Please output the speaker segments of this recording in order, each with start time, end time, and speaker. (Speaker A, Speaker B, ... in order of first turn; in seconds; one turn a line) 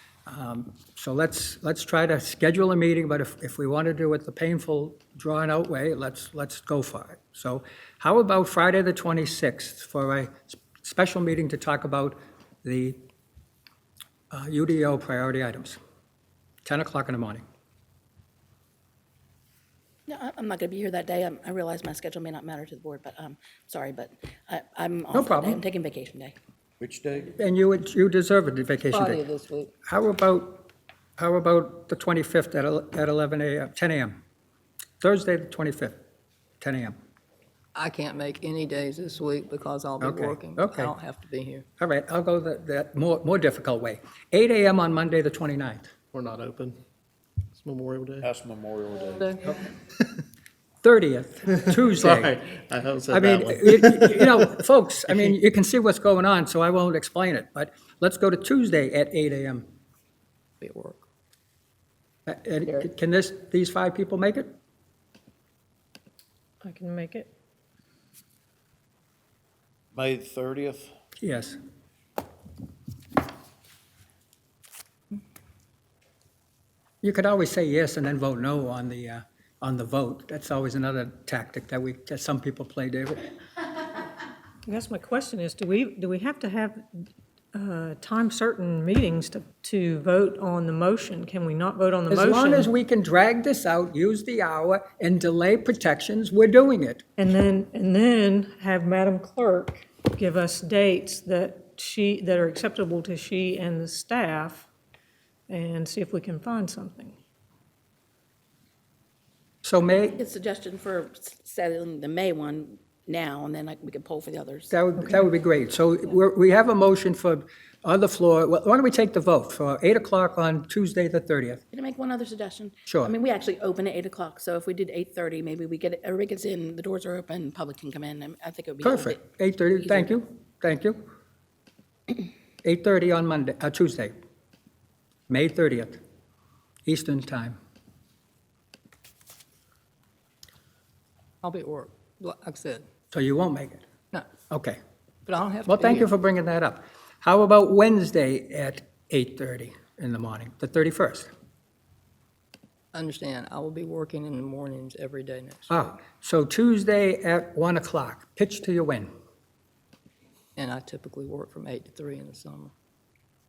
Speaker A: 0.3-13.0
Speaker A: 14.3-15.8
Speaker A: 16.6-17.4
Speaker B: 20.1-26.3
Speaker A: 25.1-25.6
Speaker C: 26.8-27.3
Speaker A: 27.3-29.2
Speaker D: 28.9-29.7
Speaker A: 29.9-30.7
Speaker A: 31.2-34.2
Speaker A: 35.0-36.0
Speaker A: 36.6-36.9
Speaker D: 37.7-41.6
Speaker A: 40.0-40.9
Speaker A: 41.8-45.9
Speaker E: 46.1-46.8
Speaker E: 47.5-48.3
Speaker C: 48.2-49.3
Speaker A: 50.8-52.3
Speaker E: 51.9-54.5
Speaker A: 53.1-59.6
Speaker D: 60.6-61.0
Speaker A: 62.3-64.5
Speaker F: 66.6-67.3
Speaker C: 69.9-70.9
Speaker A: 71.2-71.6
Speaker A: 77.0-83.3
Speaker F: 84.6-92.7
Speaker A: 92.1-97.0
Speaker F: 97.2-104.7
Speaker F: 105.5-107.2
Speaker A: 109.6-110.2
Speaker B: 110.0-114.8
Speaker A: 114.7-121.6
Speaker B: 121.7-129.2
Speaker A: 122.9-123.1
Speaker A: 128.8-131.1
Speaker B: 129.8-130.1
Speaker A: 132.6-134.1
Speaker A: 135.3-136.0
Speaker A: 136.8-137.6
Speaker D: 141.4-142.8
Speaker A: 143.1-143.8
Speaker A: 144.5-144.8
Speaker D: 145.2-146.1
Speaker A: 145.7-151.3
Speaker D: 152.9-156.0
Speaker A: 155.7-159.1
Speaker D: 160.6-162.7